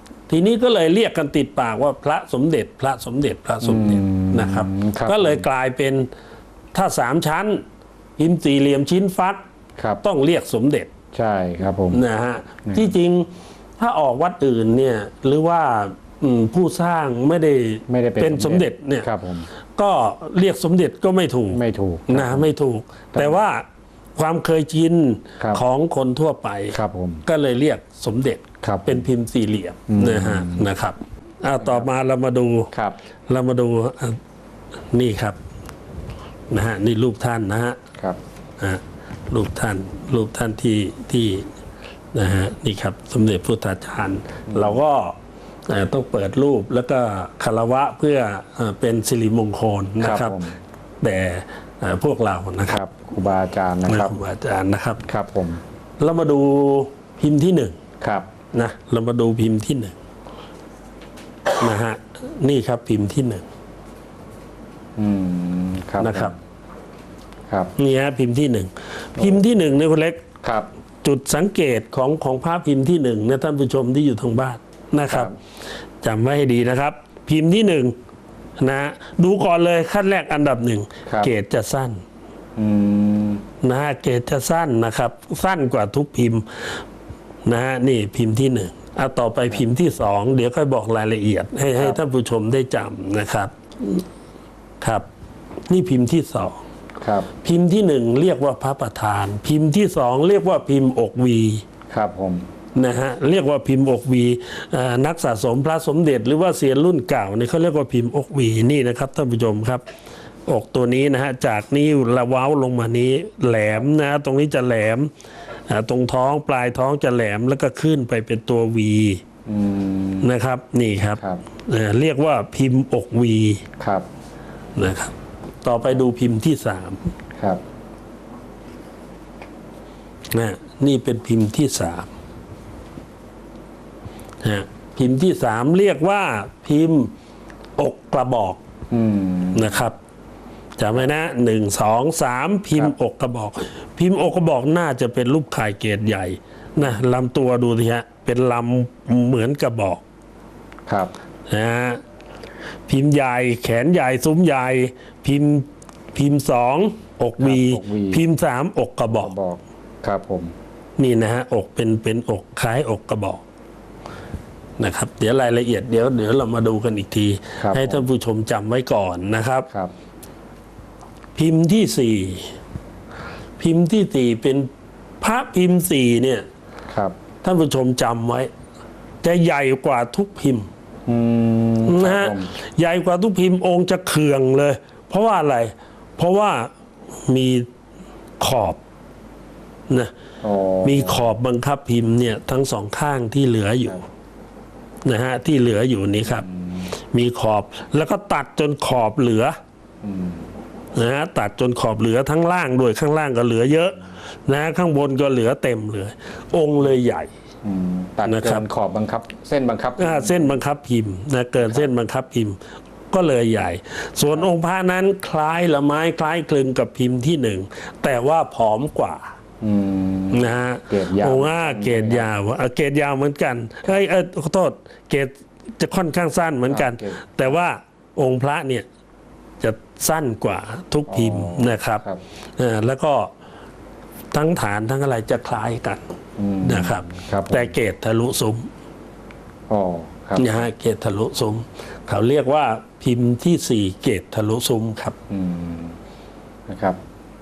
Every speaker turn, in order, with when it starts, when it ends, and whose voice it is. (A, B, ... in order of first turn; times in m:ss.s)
0:00.3-0:06.1 A
0:03.6-0:05.5 B
0:06.7-0:07.6 A
0:08.2-0:09.4 A
0:10.0-0:10.9 A
0:11.1-0:12.0 B
0:11.9-0:19.1 A
0:12.7-0:12.9 B
0:17.9-0:19.5 B
0:19.8-0:32.7 A
0:21.5-0:22.5 B
0:23.1-0:23.4 B
0:26.7-0:27.2 B
0:28.6-0:29.1 B
0:29.9-0:30.7 B
0:31.6-0:31.9 B
0:33.3-0:34.2 A
0:34.9-0:35.4 A
0:36.5-0:37.8 A
0:38.6-0:41.5 A
0:42.1-0:45.2 A
0:44.5-0:44.8 B
0:45.7-0:50.4 A
0:50.0-0:50.6 B
0:51.0-0:52.8 A
0:52.7-0:54.2 B
0:53.9-0:55.0 A
0:55.1-0:55.6 B
0:56.0-0:57.8 A
0:58.0-0:58.3 B
0:58.5-1:00.0 A
1:01.6-1:03.5 A
1:05.0-1:06.4 B
1:06.0-1:06.4 A
1:07.8-1:10.2 A
1:10.4-1:10.7 B
1:11.0-1:15.3 A
1:15.1-1:15.4 B
1:16.0-1:18.0 A
1:18.6-1:22.0 A
1:22.6-1:23.4 B
1:23.6-1:26.8 A
1:27.4-1:34.0 A
1:34.8-1:35.1 A
1:35.7-1:36.6 A
1:37.0-1:37.3 B
1:37.4-1:41.6 A
1:41.9-1:42.4 B
1:42.8-1:49.8 A
1:50.5-1:55.1 A
1:55.7-1:59.2 A
1:59.5-2:00.3 B
2:00.2-2:03.6 A
2:01.2-2:01.4 B
2:03.8-2:04.1 B
2:04.8-2:07.1 A
2:10.3-2:12.1 A
2:14.4-2:17.1 A
2:17.8-2:18.6 A
2:18.9-2:19.9 B
2:19.5-2:20.0 A
2:20.8-2:30.0 A
2:31.5-2:32.0 A
2:32.9-2:39.3 A
2:37.4-2:38.2 B
2:39.1-2:40.5 B
2:41.0-2:43.4 A
2:44.8-2:49.7 A
2:47.6-2:48.1 B
2:51.4-2:52.6 A
2:53.6-2:54.7 A
2:55.2-2:56.5 A
2:56.9-2:57.1 B
2:57.4-2:58.5 A
2:59.2-3:00.7 A
3:01.1-3:02.5 B
3:01.9-3:06.7 A
3:07.2-3:07.7 A
3:08.4-3:08.8 A
3:10.4-3:11.3 B
3:10.8-3:14.0 A
3:15.0-3:19.6 A
3:16.2-3:16.9 B
3:20.0-3:20.5 B
3:20.9-3:27.3 A
3:27.6-3:30.6 B
3:28.3-3:28.6 A
3:30.0-3:32.6 A
3:33.1-3:39.4 A
3:39.6-3:42.3 B
3:40.3-3:48.9 A
3:46.7-3:47.5 B
3:49.6-3:52.0 A
3:51.1-3:52.2 B
3:52.6-3:53.3 A
3:54.3-3:56.0 A
3:56.4-3:57.7 B
3:56.6-3:58.7 A
3:59.7-4:00.7 B
4:00.4-4:05.2 A
4:05.3-4:06.0 B
4:06.7-4:07.0 B